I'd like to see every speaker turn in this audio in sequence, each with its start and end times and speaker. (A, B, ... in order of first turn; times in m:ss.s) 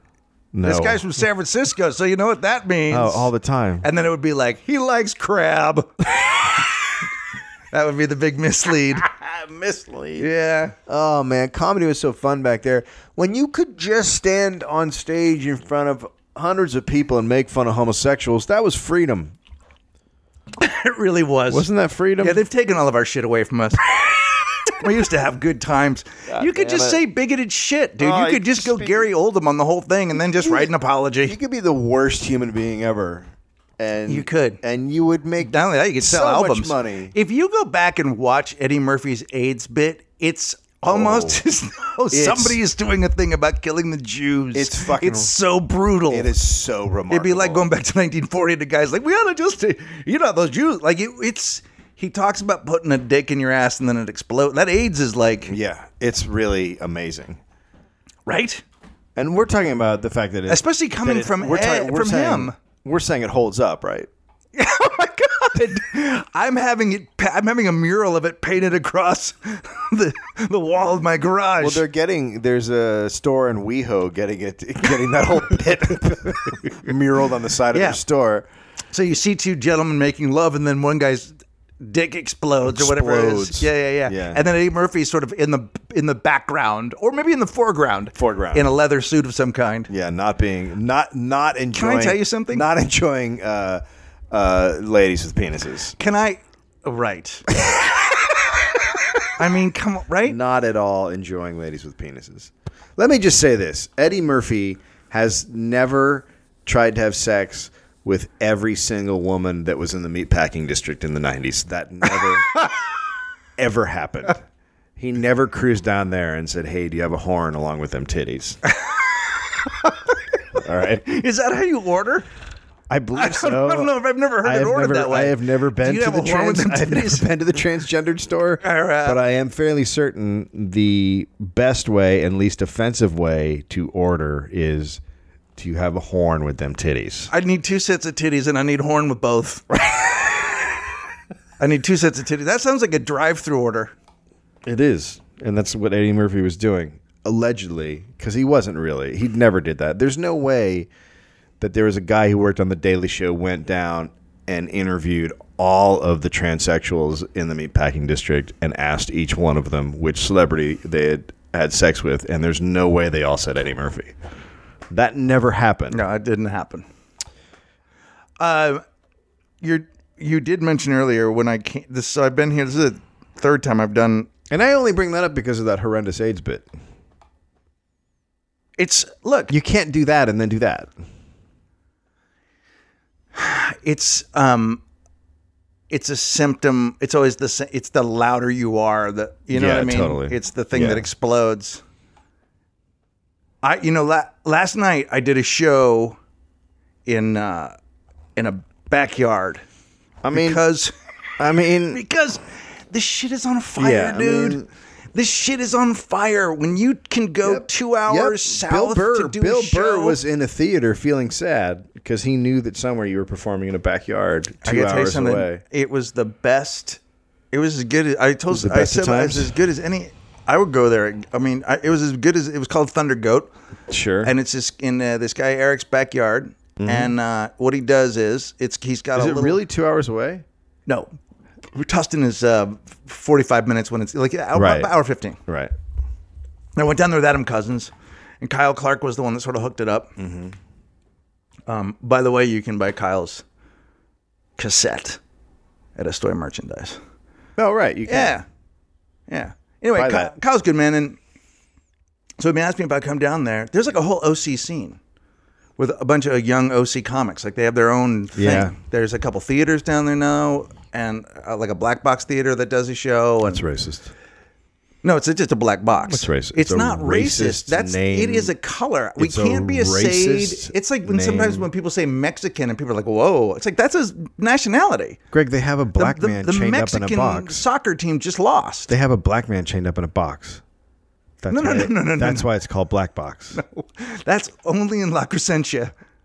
0:00.5-0:01.0 A
0:00.6-0:03.3 B
0:02.9-0:03.9 A
0:03.8-0:07.1 B
0:07.7-0:09.1 B
0:09.1-0:10.3 A
0:10.2-0:10.7 B
0:10.9-0:19.3 A
0:20.6-0:21.7 B
0:21.5-0:22.4 A
0:22.2-0:31.4 B
0:26.3-0:27.0 A
0:28.0-0:29.1 A
0:30.2-0:30.7 A
0:31.2-0:37.1 A
0:34.1-0:34.6 B
0:35.4-0:46.3 B
0:40.9-0:41.4 A
0:42.1-0:42.6 A
0:44.5-0:45.3 A
0:46.1-0:47.6 A
0:47.1-0:55.6 B
0:55.5-0:57.4 A
0:58.2-0:58.6 B
0:59.2-1:04.1 A
1:00.5-1:02.5 B
1:04.5-1:11.8 B
1:11.6-1:18.5 A
1:16.5-1:16.8 B
1:17.7-1:18.0 B
1:18.9-1:29.9 B
1:22.6-1:24.4 A
1:28.1-1:28.7 A
1:29.9-1:35.9 A
1:31.7-1:32.6 B
1:36.0-1:37.6 B
1:39.3-1:40.4 B
1:40.2-1:52.7 A
1:53.6-1:54.4 A
1:55.0-1:58.6 A
1:58.7-2:00.1 B
2:00.6-2:01.0 A
2:01.0-2:02.3 B
2:02.9-2:03.9 A
2:03.1-2:07.3 B
2:04.4-2:15.0 A
2:08.6-2:09.2 B
2:15.6-2:17.3 A
2:17.3-2:20.4 B
2:21.6-2:23.9 B
2:24.6-2:30.9 A
2:31.6-2:44.2 A
2:44.9-2:46.0 A
2:45.9-2:46.8 B
2:48.4-2:48.8 B
2:49.6-2:54.3 B
2:54.5-2:56.7 A
2:58.8-2:59.5 B
2:59.5-3:00.9 A
3:03.3-3:04.8 B
3:05.9-3:11.8 B
3:09.5-3:11.0 A
3:13.6-3:16.2 B
3:17.0-3:17.7 B
3:18.4-3:19.6 B
3:20.2-3:20.6 A
3:20.3-3:20.9 B
3:21.4-3:22.0 A
3:21.9-3:24.6 B
3:23.8-3:24.7 A
3:25.1-3:30.2 B
3:27.4-3:35.6 A
3:34.6-3:37.0 B
3:37.5-3:43.5 B
3:38.5-3:39.5 A
3:43.9-3:44.3 A
3:44.2-3:49.6 B
3:46.8-3:47.1 A
3:49.2-3:50.4 A
3:50.9-3:51.1 B
3:51.7-3:55.4 B
3:54.5-3:54.9 A
3:55.5-3:55.7 A
3:56.8-3:57.9 B
3:58.4-4:00.1 B
4:00.2-4:00.6 A
4:01.7-4:03.4 B
4:04.6-4:05.2 B
4:06.0-4:07.0 B
4:07.6-4:08.3 A
4:08.1-4:08.4 B
4:09.3-4:11.2 B
4:09.9-4:10.3 A
4:12.4-4:15.0 B
4:15.8-4:23.6 B
4:18.4-4:18.7 A
4:23.5-4:24.1 A
4:25.0-4:35.2 B
4:26.1-4:28.5 A
4:29.2-4:31.7 A
4:35.3-4:37.6 A
4:36.0-4:38.9 B
4:38.9-4:40.6 A
4:41.4-4:43.6 A
4:41.5-4:42.5 B
4:43.5-4:45.9 B